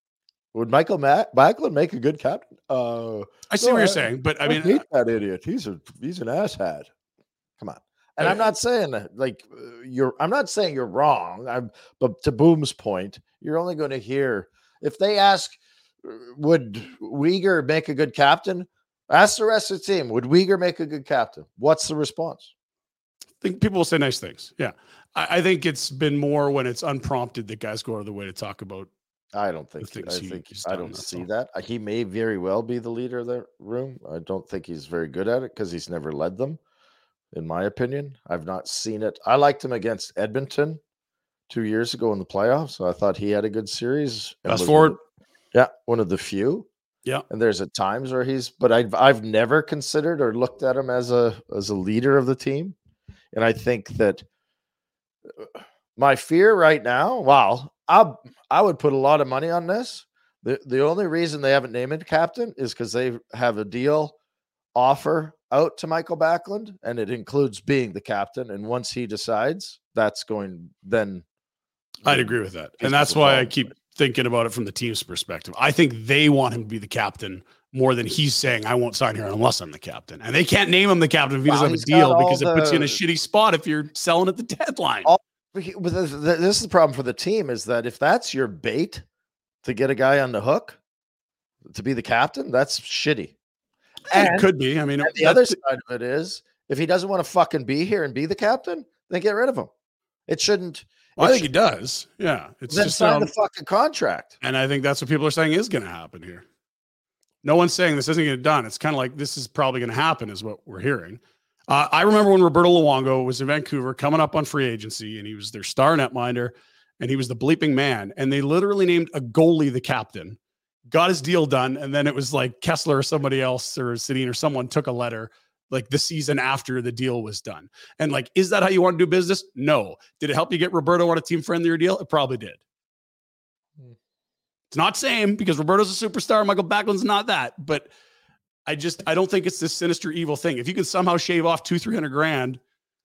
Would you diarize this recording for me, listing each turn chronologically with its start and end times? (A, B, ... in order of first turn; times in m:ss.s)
0:00.5-0:06.9 A
0:03.5-0:04.8 B
0:07.6-0:22.5 A
0:23.4-0:28.9 B
0:29.3-0:36.6 A
0:29.8-0:31.3 B
0:37.3-0:40.8 A
0:41.5-0:45.0 A
0:44.4-0:45.0 B
0:45.5-0:46.7 A
0:47.3-0:52.8 A
0:53.3-0:54.2 A
0:55.4-1:04.1 A
1:04.7-1:11.2 A
1:12.0-1:13.7 A
1:12.0-1:25.1 B
1:21.5-1:23.0 A
1:25.0-1:29.0 A
1:29.6-1:30.8 A
1:31.6-1:33.3 A
1:34.1-1:35.6 B
1:34.1-1:34.5 A
1:35.0-1:39.7 A
1:40.3-1:41.5 A
1:41.2-1:43.3 B
1:42.7-1:44.4 A
1:44.4-1:46.4 B
1:47.4-2:00.4 B
2:00.9-2:12.6 B
2:14.7-2:17.9 B
2:18.7-2:22.6 B